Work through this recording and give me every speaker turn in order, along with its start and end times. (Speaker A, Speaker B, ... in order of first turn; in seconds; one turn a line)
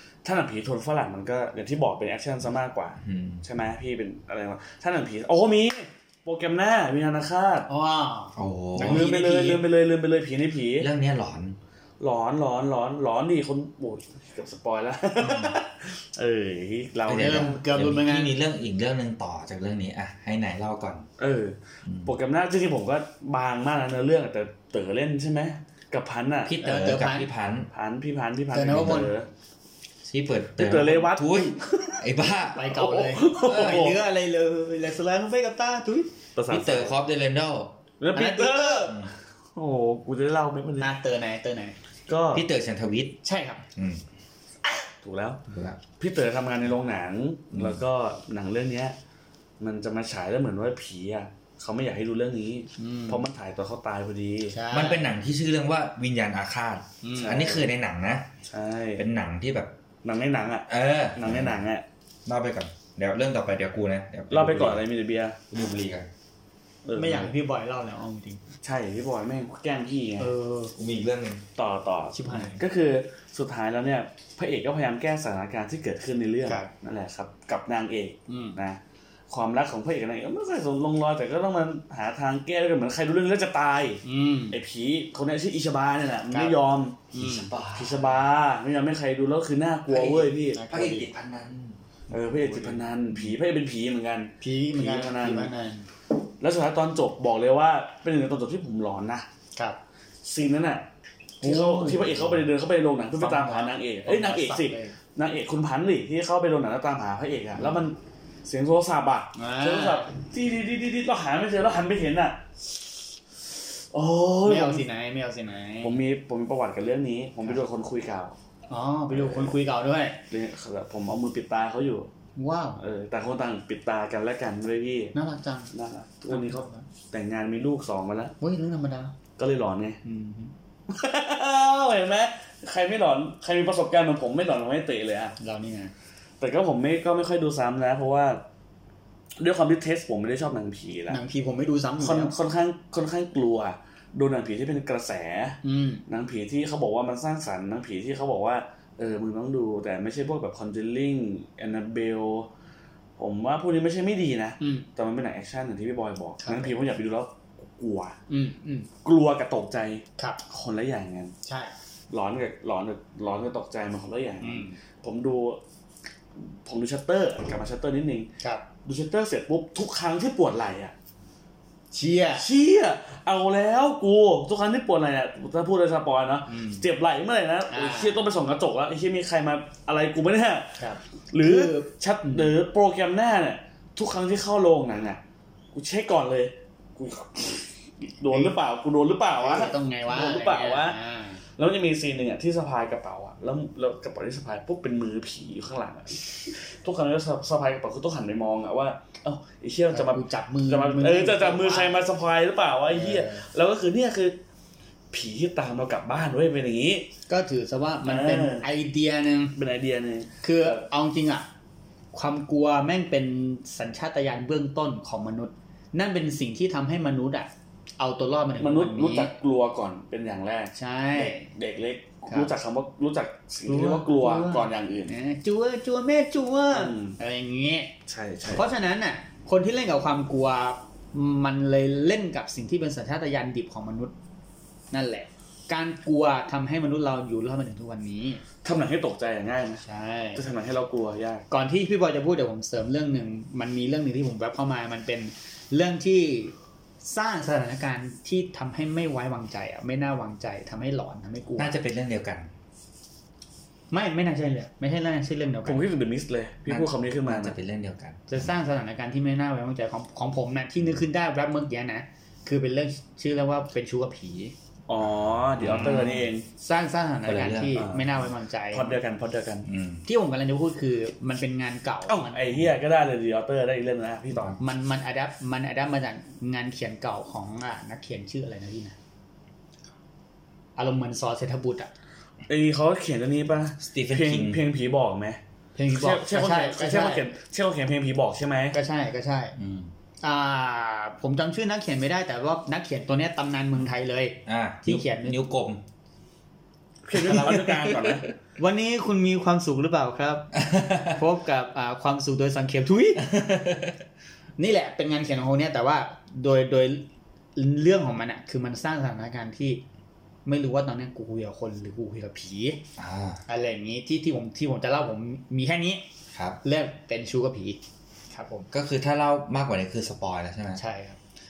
Speaker A: 0.2-7.7
Speaker B: 3.0-3.4
Speaker C: 7.7-9.6
Speaker B: 8.3-9.2
Speaker A: 8.8-10.9
Speaker B: 10.8-11.6
Speaker A: 12.0-17.6
Speaker B: 15.2-15.6
Speaker B: 17.1-21.1
Speaker C: 17.1-18.3
Speaker A: 21.2-26.6
Speaker B: 21.8-22.1
Speaker B: 26.4-27.7
Speaker C: 26.6-27.3
Speaker A: 27.7-29.3
Speaker C: 28.5-29.1
Speaker B: 30.1-32.7
Speaker A: 30.6-32.0
Speaker C: 32.5-36.1
Speaker A: 32.6-34.0
Speaker B: 33.5-33.9
Speaker A: 36.4-36.9
Speaker B: 36.5-37.8
Speaker A: 38.0-39.0
Speaker C: 38.1-39.0
Speaker B: 38.9-39.1
Speaker A: 39.5-40.9
Speaker C: 40.8-41.8
Speaker A: 42.1-42.5
Speaker B: 42.3-43.2
Speaker C: 43.2-43.6
Speaker B: 43.7-44.0
Speaker A: 45.0-45.4
Speaker B: 45.5-45.8
Speaker A: 46.0-48.9
Speaker B: 47.5-47.8
Speaker A: 49.6-54.6
Speaker C: 52.8-53.2
Speaker C: 54.5-55.1
Speaker B: 54.7-58.3
Speaker C: 57.0-57.5
Speaker A: 57.2-57.7
Speaker A: 58.5-59.0
Speaker B: 59.0-59.7
Speaker A: 60.0-61.8
Speaker B: 60.7-61.6
Speaker B: 62.2-64.8
Speaker A: 64.3-65.4
Speaker B: 65.5-66.1
Speaker A: 66.8-67.3
Speaker C: 66.9-68.4
Speaker A: 68.6-70.3
Speaker C: 70.2-70.7
Speaker B: 70.7-71.4
Speaker A: 71.6-78.8
Speaker C: 72.1-72.6
Speaker C: 76.5-76.7
Speaker C: 78.3-78.6
Speaker A: 79.3-87.1
Speaker C: 84.0-84.6
Speaker C: 86.3-86.6
Speaker C: 87.1-87.5
Speaker B: 87.1-88.2
Speaker A: 87.7-90.6
Speaker C: 89.9-91.1
Speaker B: 90.7-93.3
Speaker A: 92.1-95.5
Speaker C: 94.4-95.9
Speaker A: 96.4-99.3
Speaker A: 100.2-100.8
Speaker A: 101.4-112.8
Speaker C: 101.4-102.5
Speaker C: 103.2-105.0
Speaker C: 109.3-110.1
Speaker A: 113.9-114.8
Speaker C: 114.4-116.0
Speaker A: 115.8-118.3
Speaker C: 118.7-120.2
Speaker A: 119.1-119.5
Speaker A: 120.3-122.1
Speaker C: 122.3-122.8
Speaker A: 122.8-125.1
Speaker C: 125.1-125.7
Speaker A: 125.7-128.3
Speaker C: 126.3-126.8
Speaker C: 128.4-129.1
Speaker A: 129.4-130.0
Speaker C: 130.0-130.5
Speaker A: 130.9-135.3
Speaker C: 135.4-135.9
Speaker A: 136.4-138.4
Speaker A: 139.4-141.2
Speaker C: 141.1-142.3
Speaker A: 142.0-152.5
Speaker C: 145.6-146.0
Speaker A: 153.2-158.2
Speaker C: 154.6-154.9
Speaker C: 156.4-156.7
Speaker C: 158.3-158.9
Speaker A: 159.0-161.3
Speaker C: 161.4-161.7
Speaker A: 162.1-165.6
Speaker C: 164.4-164.8
Speaker A: 166.4-168.3
Speaker A: 168.8-170.9
Speaker C: 171.9-172.4
Speaker A: 172.4-180.8
Speaker C: 176.5-176.8
Speaker C: 177.7-178.2
Speaker C: 180.8-182.5
Speaker A: 181.3-185.2
Speaker A: 185.7-204.4
Speaker C: 188.3-188.5
Speaker C: 189.4-191.4
Speaker C: 199.9-202.0
Speaker C: 202.9-203.4
Speaker A: 205.1-207.1
Speaker C: 207.3-209.5
Speaker A: 208.0-208.7
Speaker A: 209.6-210.8
Speaker C: 210.4-211.5
Speaker C: 212.1-219.3
Speaker A: 218.6-225.2
Speaker C: 220.7-221.5
Speaker C: 222.2-222.5
Speaker C: 223.7-227.9
Speaker A: 226.7-227.2
Speaker A: 228.1-228.7
Speaker C: 228.5-234.1
Speaker C: 234.9-238.4
Speaker A: 238.6-239.8
Speaker C: 239.8-240.4
Speaker A: 240.3-241.4
Speaker C: 241.5-251.7
Speaker B: 251.6-252.5
Speaker C: 253.9-255.8
Speaker A: 255.7-257.5
Speaker B: 256.7-258.5
Speaker C: 258.3-264.5
Speaker A: 264.9-266.4
Speaker B: 265.0-266.3
Speaker C: 265.7-269.0
Speaker B: 267.2-267.9
Speaker A: 267.7-268.1
Speaker A: 268.7-269.7
Speaker B: 269.6-270.0
Speaker C: 270.0-272.4
Speaker A: 272.1-274.6
Speaker C: 274.6-278.9
Speaker C: 280.8-281.9
Speaker A: 282.5-285.4
Speaker B: 283.8-284.6
Speaker C: 285.8-287.2
Speaker A: 285.9-288.8
Speaker C: 288.7-289.6
Speaker B: 289.6-289.9
Speaker C: 290.2-295.4
Speaker B: 294.4-295.8
Speaker A: 297.0-298.3
Speaker B: 297.3-297.6
Speaker C: 298.6-303.3
Speaker B: 300.6-301.2
Speaker B: 303.2-304.0
Speaker C: 304.6-309.8
Speaker C: 310.4-312.8
Speaker B: 313.0-313.4
Speaker C: 313.5-316.0
Speaker B: 316.3-316.6
Speaker C: 316.6-317.8
Speaker C: 318.3-318.7
Speaker B: 318.7-320.8
Speaker C: 320.8-321.2